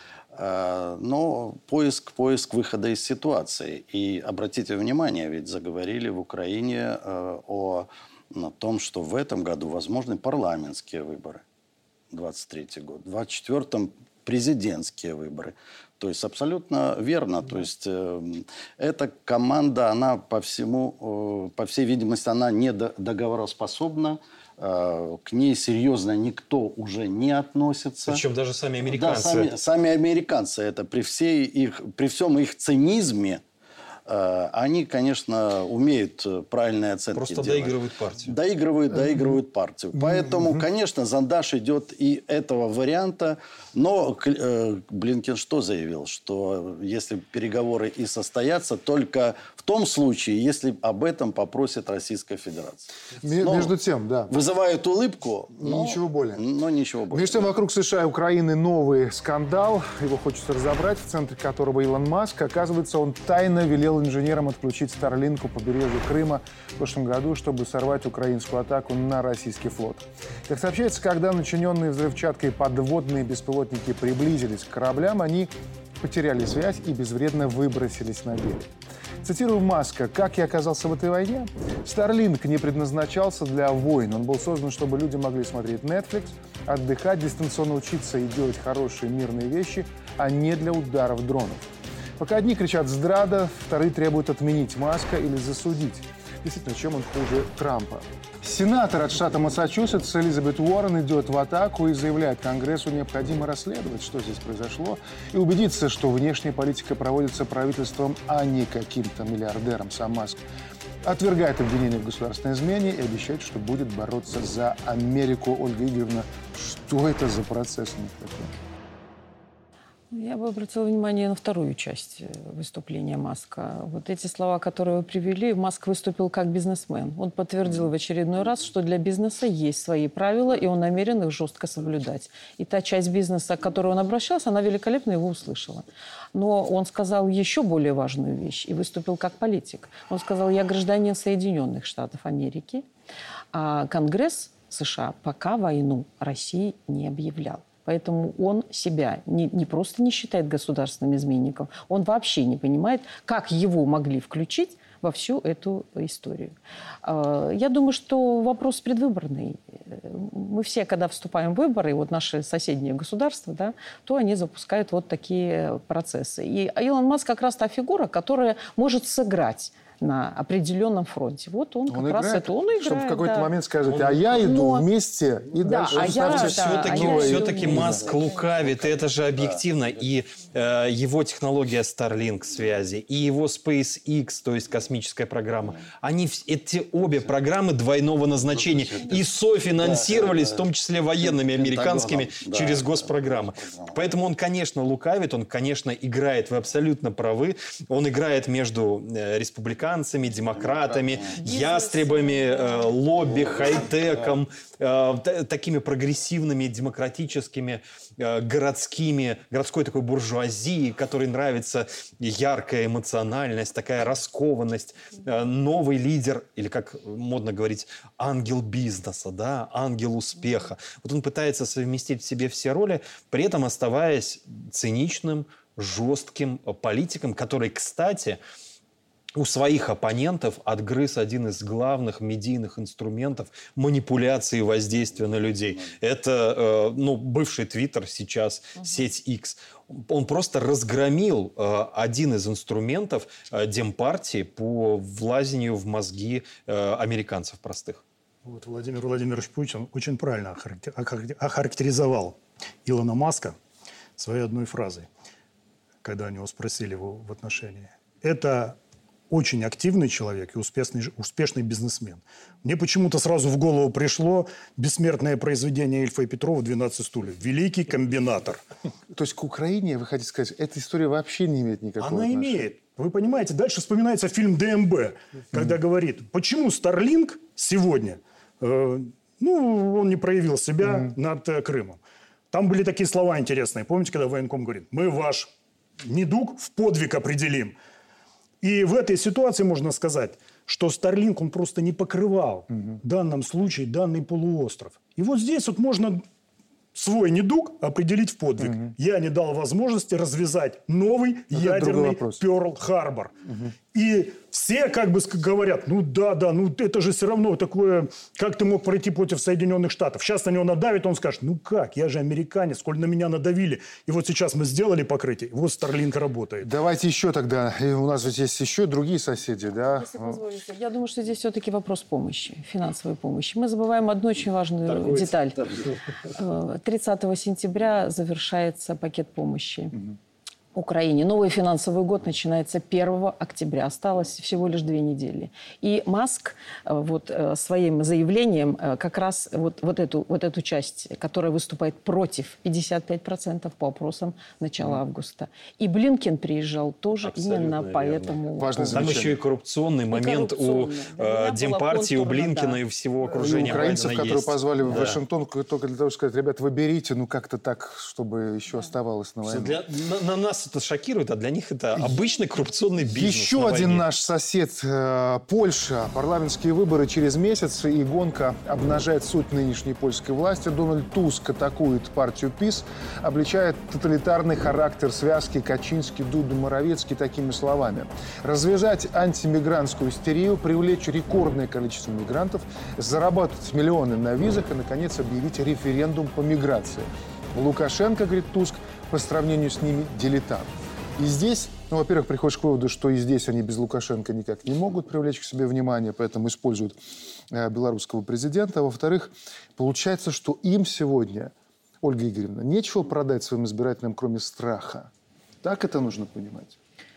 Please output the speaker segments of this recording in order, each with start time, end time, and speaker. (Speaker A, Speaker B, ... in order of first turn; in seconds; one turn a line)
Speaker A: 0.3-11.4
Speaker A: 12.1-28.2
Speaker B: 28.1-29.5
Speaker A: 28.9-33.4
Speaker A: 34.1-53.7
Speaker B: 37.1-38.4
Speaker C: 39.9-40.6
Speaker C: 53.2-54.3
Speaker A: 54.3-57.5
Speaker C: 55.6-56.4
Speaker C: 57.1-75.5
Speaker C: 76.0-78.7
Speaker C: 79.2-91.6
Speaker C: 92.2-110.4
Speaker C: 111.0-118.5
Speaker D: 120.1-142.8
Speaker D: 143.5-173.5
Speaker C: 171.9-178.1
Speaker D: 174.3-174.9
Speaker D: 175.6-178.0
Speaker B: 176.0-228.4
Speaker A: 177.2-180.0
Speaker A: 187.0-187.3
Speaker A: 188.5-189.2
Speaker A: 189.8-190.7
Speaker A: 191.2-194.0
Speaker A: 200.6-201.4
Speaker D: 201.4-202.9
Speaker A: 203.2-204.4
Speaker B: 229.3-248.0
Speaker A: 235.0-235.9
Speaker E: 248.4-253.6
Speaker E: 254.2-255.1
Speaker E: 256.0-258.8
Speaker E: 259.3-268.6
Speaker C: 269.1-272.6
Speaker E: 272.0-282.0
Speaker E: 282.5-287.8
Speaker E: 288.6-296.2
Speaker E: 296.9-303.3
Speaker C: 301.5-302.4
Speaker C: 303.4-303.7
Speaker E: 303.9-316.7
Speaker C: 316.6-320.4
Speaker D: 319.9-325.6
Speaker B: 324.9-325.3
Speaker D: 326.3-329.9
Speaker D: 330.7-349.3
Speaker B: 347.2-348.4
Speaker C: 348.6-349.4
Speaker B: 348.9-355.2
Speaker D: 350.1-352.8
Speaker C: 353.2-359.8
Speaker B: 359.4-364.1
Speaker C: 361.9-362.2
Speaker C: 363.1-396.9
Speaker C: 397.5-405.1
Speaker C: 405.6-406.8